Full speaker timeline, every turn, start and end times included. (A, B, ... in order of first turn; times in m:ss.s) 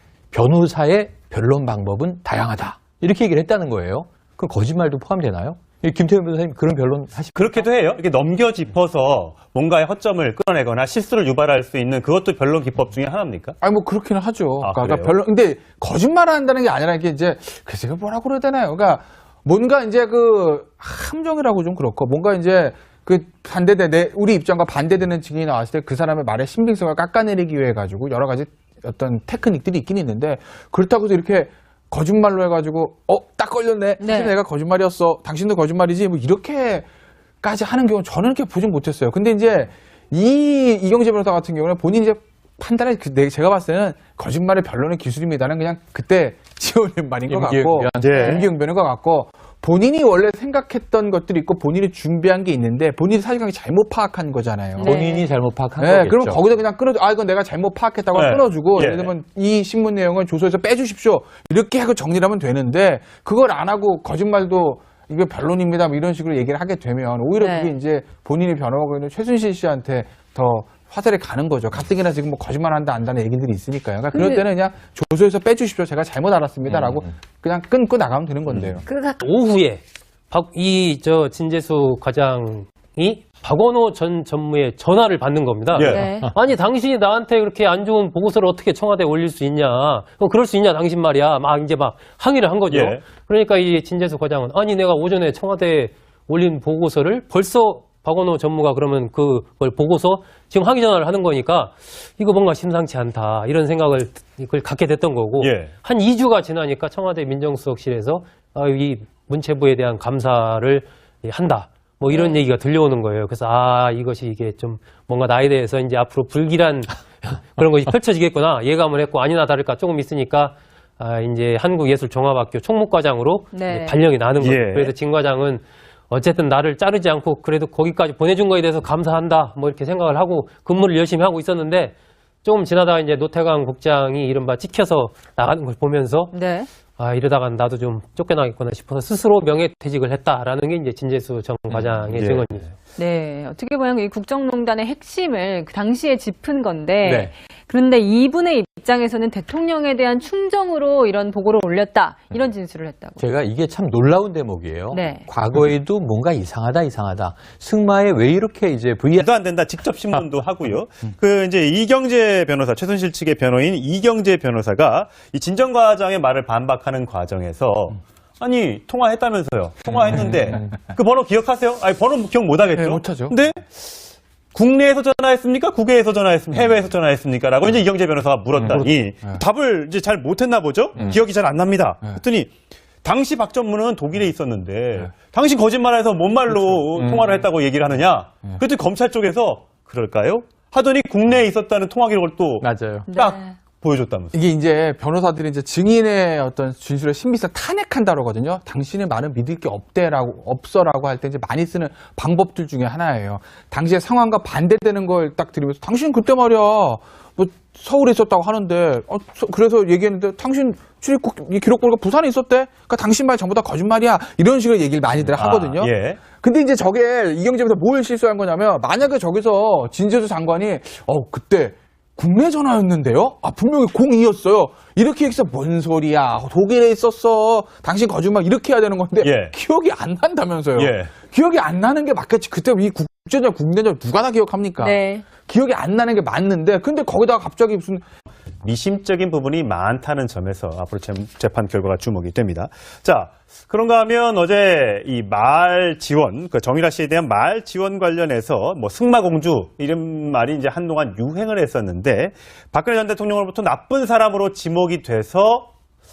0:00.3-0:07.7 A
0:07.3-0:13.6 B
0:13.6-0:36.8 C
0:14.6-0:15.1 B
0:34.0-0:34.4 D
0:37.4-0:54.9 C
0:47.3-0:48.3 A
0:48.0-0:48.4 B
0:48.1-0:48.4 D
0:54.8-0:55.2 D
0:54.8-0:56.4 A
0:55.8-1:18.8 C
0:58.1-0:59.1 B
1:07.4-1:07.7 D
1:14.1-1:14.4 D
1:18.8-1:19.2 D
1:19.2-2:16.3 E
1:25.7-1:26.0 B
1:25.9-1:26.3 D
1:32.7-1:33.0 B
1:45.4-1:45.7 B
1:52.1-1:52.4 D
2:03.5-2:04.0 D
2:04.4-2:04.9 B
2:16.3-2:16.7 D
2:16.9-2:22.7 E
2:21.7-2:22.4 B
2:23.0-2:33.3 D
2:27.0-2:27.3 A
2:33.2-2:39.3 A
2:34.9-2:35.3 D
2:39.2-2:53.9 B
2:52.7-2:53.4 C
2:54.5-3:02.5 B
2:58.7-2:59.4 C
3:03.0-3:14.3 B
3:12.6-3:13.1 A
3:13.1-3:13.6 D
3:14.3-3:58.0 C
3:35.3-3:36.2 B
3:49.2-3:49.5 B
3:50.8-3:51.1 B
3:54.8-3:55.3 D
3:58.6-4:15.7 B